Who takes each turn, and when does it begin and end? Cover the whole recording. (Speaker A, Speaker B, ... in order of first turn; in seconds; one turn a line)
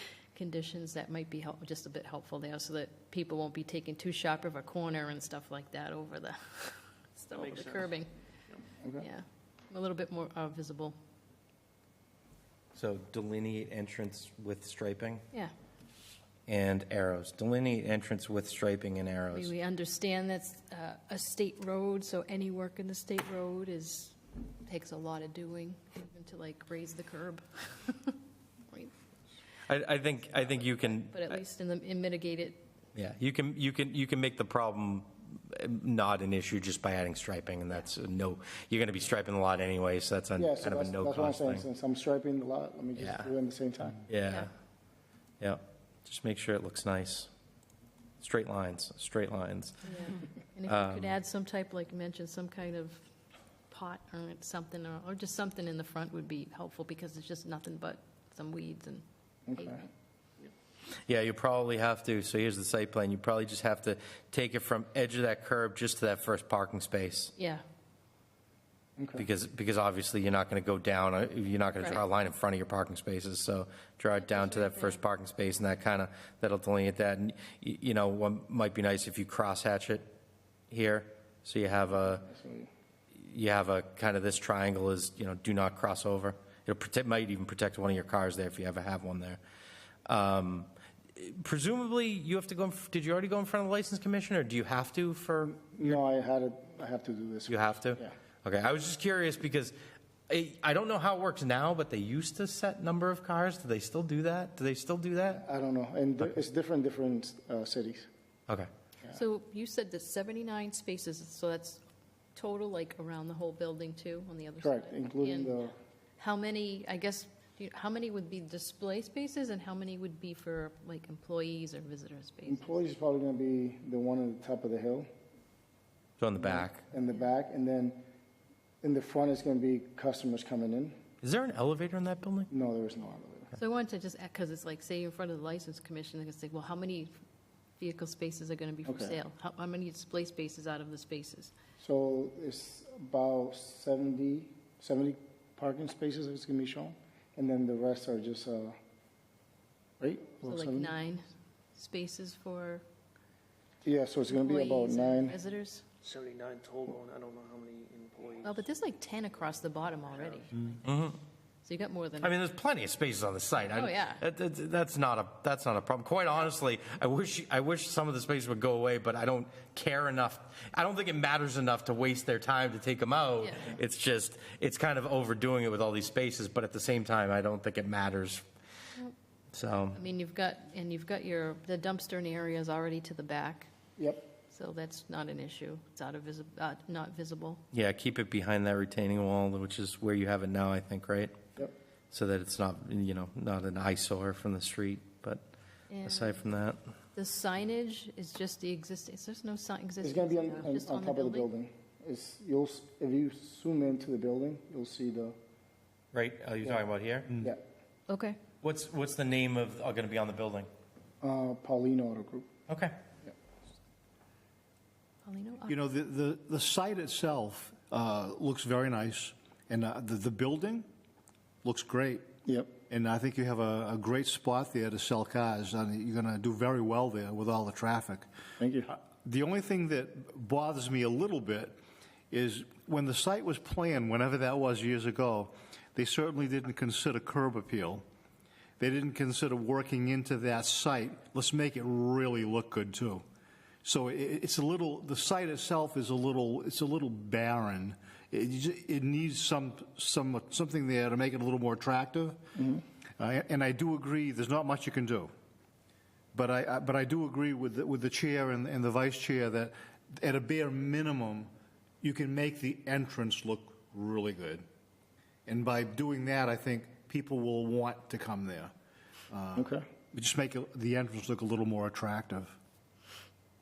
Speaker A: 0.3-8.1
Speaker A: 9.0-10.9
Speaker B: 12.7-15.2
Speaker B: 16.5-19.5
Speaker A: 19.3-28.2
Speaker B: 29.7-31.2
Speaker A: 30.3-32.6
Speaker B: 32.9-41.6
Speaker C: 40.4-44.0
Speaker B: 43.0-43.3
Speaker B: 44.1-44.5
Speaker B: 45.4-47.3
Speaker B: 48.2-49.9
Speaker A: 49.8-53.1
Speaker B: 50.7-51.1
Speaker A: 53.7-59.9
Speaker C: 59.5-59.8
Speaker B: 61.1-67.3
Speaker A: 67.3-67.6
Speaker C: 69.0-69.2
Speaker B: 69.2-80.1
Speaker A: 74.3-75.0
Speaker B: 80.7-82.2
Speaker C: 81.9-82.7
Speaker B: 83.2-89.4
Speaker B: 90.0-96.0
Speaker C: 95.6-98.1
Speaker B: 97.5-99.7
Speaker B: 100.3-105.4
Speaker C: 105.3-108.1
Speaker A: 109.1-111.8
Speaker A: 112.3-115.6
Speaker C: 114.6-115.7
Speaker A: 116.2-122.7
Speaker C: 122.5-125.1
Speaker B: 126.2-126.8
Speaker C: 126.4-128.1
Speaker C: 128.8-130.9
Speaker B: 131.2-132.5
Speaker C: 132.5-133.5
Speaker A: 133.6-137.1
Speaker A: 137.8-141.5
Speaker C: 138.8-139.2
Speaker C: 141.8-148.8
Speaker C: 150.0-150.9
Speaker A: 150.4-152.8
Speaker C: 153.8-155.4
Speaker A: 154.3-155.8
Speaker D: 156.0-158.6
Speaker A: 158.4-160.8
Speaker D: 160.1-160.4
Speaker B: 160.8-161.2
Speaker A: 161.6-162.3
Speaker B: 162.2-178.4
Speaker A: 163.7-164.2
Speaker A: 173.4-173.8
Speaker B: 179.5-180.0
Speaker A: 179.9-183.7
Speaker C: 184.0-184.3
Speaker A: 184.5-187.6
Speaker B: 187.7-191.4
Speaker B: 192.1-195.4
Speaker A: 195.9-196.4
Speaker B: 196.0-196.8
Speaker A: 197.1-201.5
Speaker C: 200.0-205.4
Speaker B: 206.1-207.3
Speaker A: 208.1-208.4
Speaker B: 208.6-210.7
Speaker C: 211.2-212.5
Speaker B: 212.7-212.9
Speaker A: 215.2-215.8
Speaker E: 215.7-220.9
Speaker E: 221.6-222.3
Speaker C: 222.4-222.7
Speaker E: 222.9-228.3
Speaker C: 228.6-228.9
Speaker E: 228.9-231.8
Speaker E: 232.3-238.0
Speaker E: 238.8-243.2
Speaker E: 243.8-252.5
Speaker C: 252.6-252.8
Speaker E: 253.2-255.3
Speaker E: 256.3-261.5
Speaker E: 262.0-264.6
Speaker E: 265.5-268.7
Speaker E: 269.3-272.6
Speaker C: 269.6-269.8